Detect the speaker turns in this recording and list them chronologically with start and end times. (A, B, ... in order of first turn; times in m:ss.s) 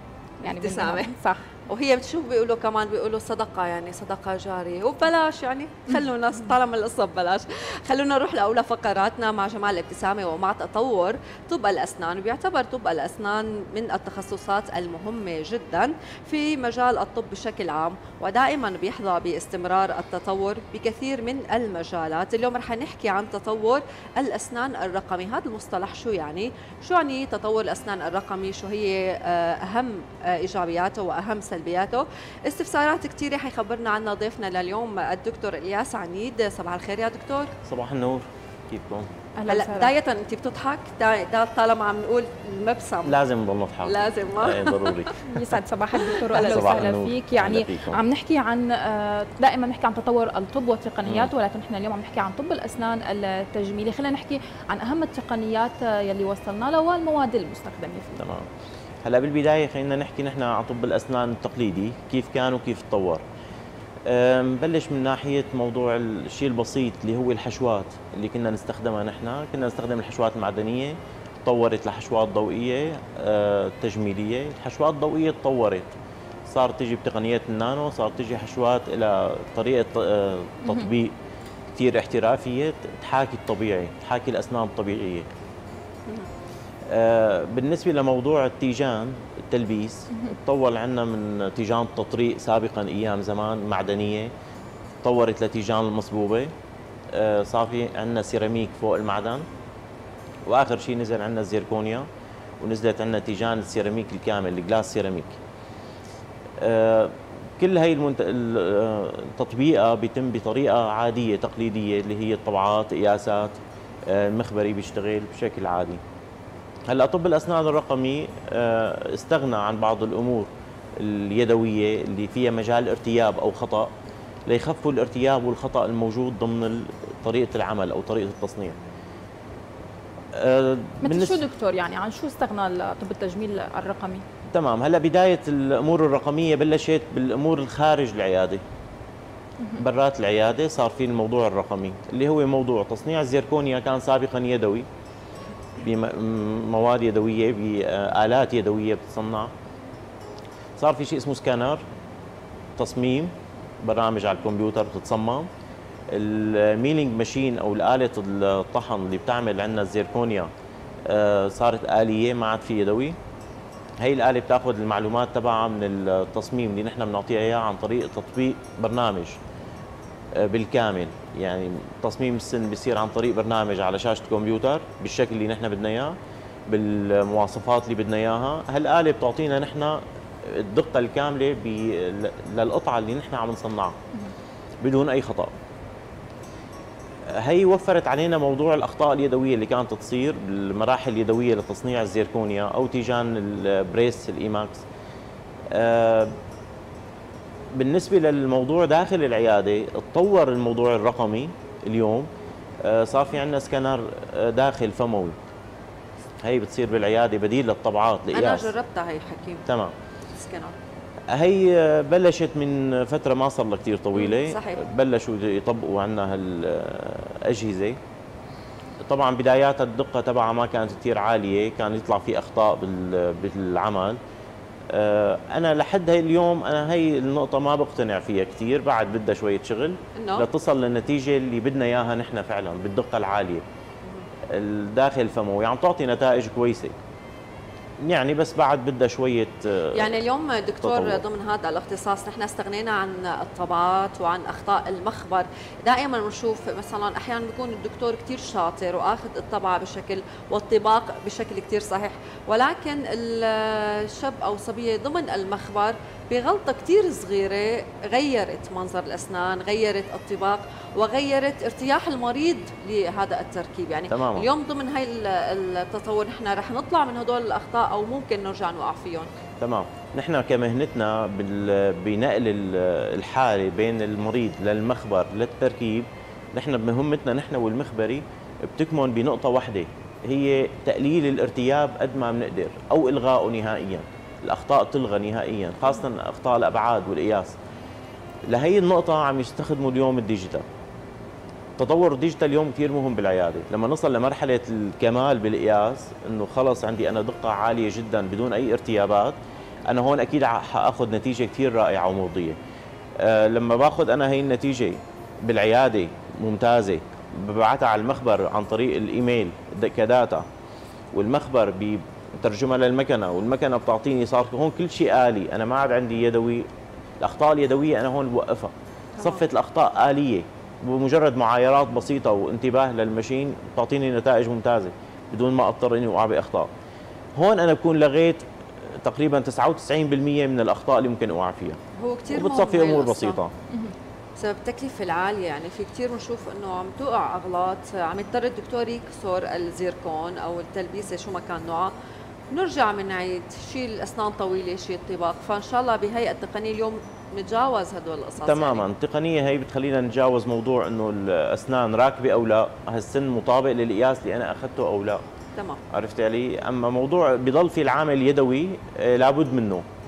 0:00.4-0:01.4 A
0:00.4-0:01.1 B
0:01.7-0:37.5 B
0:37.6-0:39.1 C
0:39.4-0:39.9 A
0:39.5-0:43.2 B
0:43.0-0:45.2 C
0:43.8-0:45.2 B
0:45.2-0:58.2 A
0:46.0-0:46.8 B
0:46.4-0:48.0 C
0:51.0-0:51.3 C
0:58.2-0:58.5 C
0:59.0-1:03.2 C
1:04.1-1:15.9 C
1:16.5-1:21.1 C
1:21.8-1:25.2 C
1:26.9-1:34.3 C
1:35.0-1:36.5 C
1:37.1-1:39.4 C
1:40.5-1:42.1 C
1:42.6-1:45.4 C
1:46.6-1:56.0 C
1:56.9-2:03.9 C
2:04.5-2:08.8 C
2:10.3-2:11.4 C
2:11.0-2:14.2 A
2:14.5-2:18.6 C
2:19.8-2:24.8 C
2:25.8-2:29.5 C
2:30.8-2:31.8 C
2:32.8-2:35.5 C
2:36.1-2:40.5 C
2:41.1-2:43.2 C
2:44.0-2:49.4 C
2:50.3-2:56.2 C
2:56.7-3:04.0 C
3:04.8-3:05.5 C
3:07.3-3:14.8 C
3:15.7-3:16.3 C
3:17.7-3:22.3 C
3:22.8-3:25.3 C
3:26.4-3:28.7 C
3:28.3-3:29.6 B
3:29.7-3:29.9 C
3:30.3-3:30.8 B
3:31.3-3:38.0 C
3:34.2-3:34.8 B
3:39.1-3:44.2 C
3:44.9-3:53.6 C
3:50.2-3:50.5 B
3:54.5-3:57.0 C
3:58.0-4:00.2 C
3:59.9-4:29.3 B
4:00.8-4:01.2 C
4:24.1-4:24.5 C
4:29.6-4:47.6 C
4:48.5-4:50.6 C
4:51.8-4:59.4 C
4:59.9-5:02.6 C
5:03.2-5:10.4 C
5:11.1-5:16.6 C
5:17.2-5:26.7 C
5:19.2-5:19.4 B
5:27.4-5:28.4 C
5:29.0-5:31.8 C
5:32.0-5:33.4 B
5:32.3-5:33.5 C
5:34.4-5:41.9 B
5:42.5-5:48.9 B
5:48.4-5:55.2 C
5:55.9-5:59.8 C